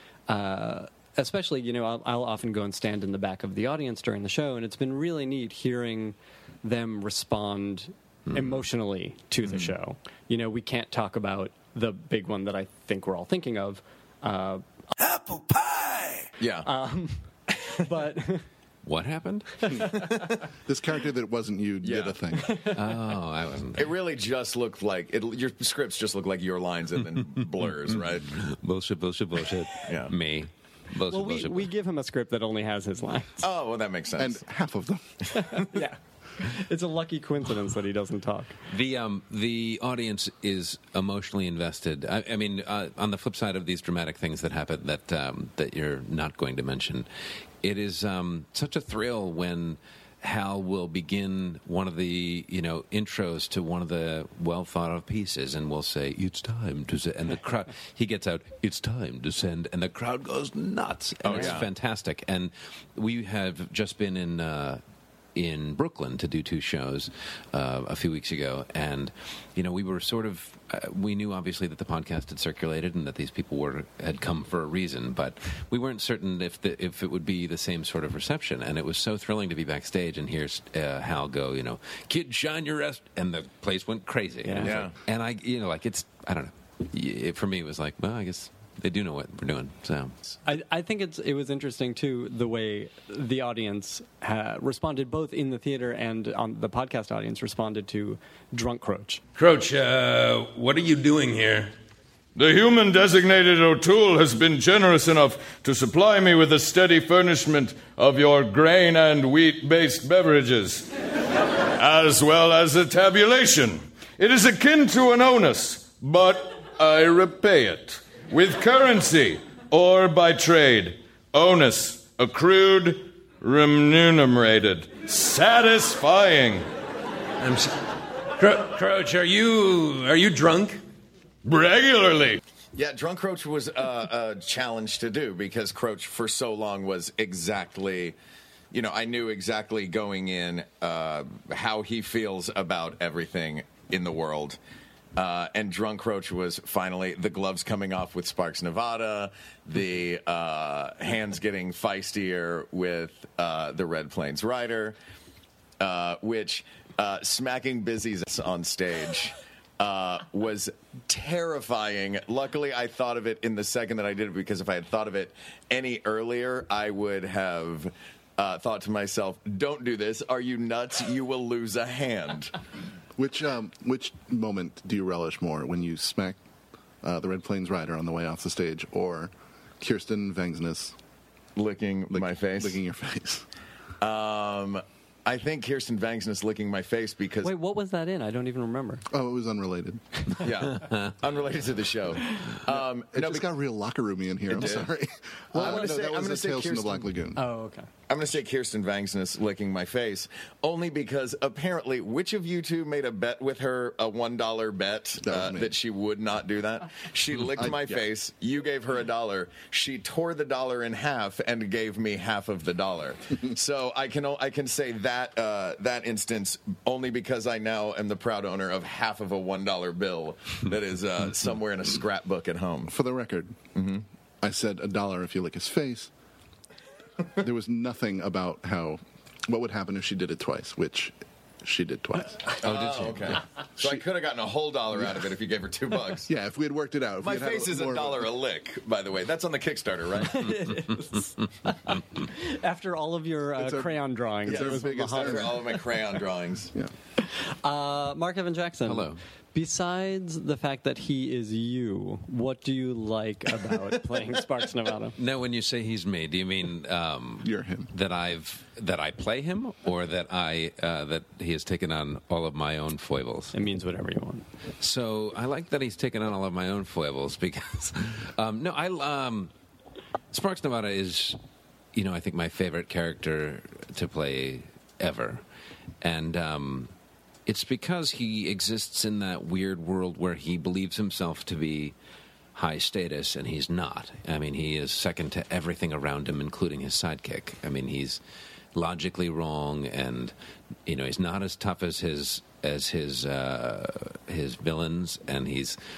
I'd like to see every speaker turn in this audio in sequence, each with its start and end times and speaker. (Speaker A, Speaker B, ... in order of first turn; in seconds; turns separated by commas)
Speaker A: 0.3-14.6, Speaker B: 8.3-8.6, Speaker C: 9.4-9.7, Speaker C: 16.4-16.7, Speaker A: 16.6-17.2, Speaker A: 17.7-18.4, Speaker B: 18.8-19.7, Speaker D: 19.7-20.0, Speaker D: 20.6-22.6, Speaker C: 21.8-22.2, Speaker B: 22.7-23.9, Speaker C: 23.7-28.3, Speaker B: 27.6-31.7, Speaker C: 29.9-30.1, Speaker A: 31.1-33.4, Speaker C: 33.4-34.4, Speaker D: 34.2-35.3, Speaker A: 35.5-38.6, Speaker B: 38.7-47.1, Speaker B: 47.6-64.8, Speaker C: 61.2-61.7, Speaker B: 65.3-90.1, Speaker A: 84.4-84.7, Speaker C: 84.6-84.9, Speaker A: 90.5-99.2, Speaker E: 99.3-101.7, Speaker F: 102.3-110.9, Speaker F: 111.8-126.7, Speaker E: 127.4-127.7, Speaker E: 128.3-130.8, Speaker F: 131.4-132.4, Speaker C: 132.8-138.2, Speaker C: 138.7-144.6, Speaker C: 145.2-154.9, Speaker C: 155.8-172.5, Speaker D: 173.2-176.4, Speaker D: 177.0-180.9, Speaker C: 181.6-182.8, Speaker D: 182.1-183.4, Speaker C: 184.0-187.5, Speaker A: 187.4-189.0, Speaker D: 189.1-190.0, Speaker C: 190.4-193.5, Speaker B: 190.8-191.1, Speaker D: 192.7-197.4, Speaker C: 194.5-194.9, Speaker C: 195.5-197.1, Speaker A: 197.3-197.9, Speaker C: 198.1-222.9, Speaker D: 205.2-205.7, Speaker D: 207.4-208.0, Speaker D: 222.9-223.6, Speaker C: 223.7-224.0, Speaker D: 224.4-226.1, Speaker D: 227.4-232.5, Speaker C: 232.6-236.3, Speaker B: 232.6-233.4, Speaker D: 236.3-238.3, Speaker C: 237.2-240.5, Speaker A: 240.3-245.6, Speaker D: 243.6-245.7, Speaker C: 244.4-246.7, Speaker A: 247.6-255.2, Speaker B: 248.8-249.2, Speaker B: 255.2-263.5, Speaker D: 257.4-257.9, Speaker A: 263.5-264.4, Speaker B: 264.8-269.5, Speaker B: 270.3-271.4, Speaker B: 271.9-275.4, Speaker B: 276.0-276.9, Speaker B: 277.4-281.9, Speaker B: 282.5-288.2, Speaker B: 288.7-290.3, Speaker B: 290.9-295.8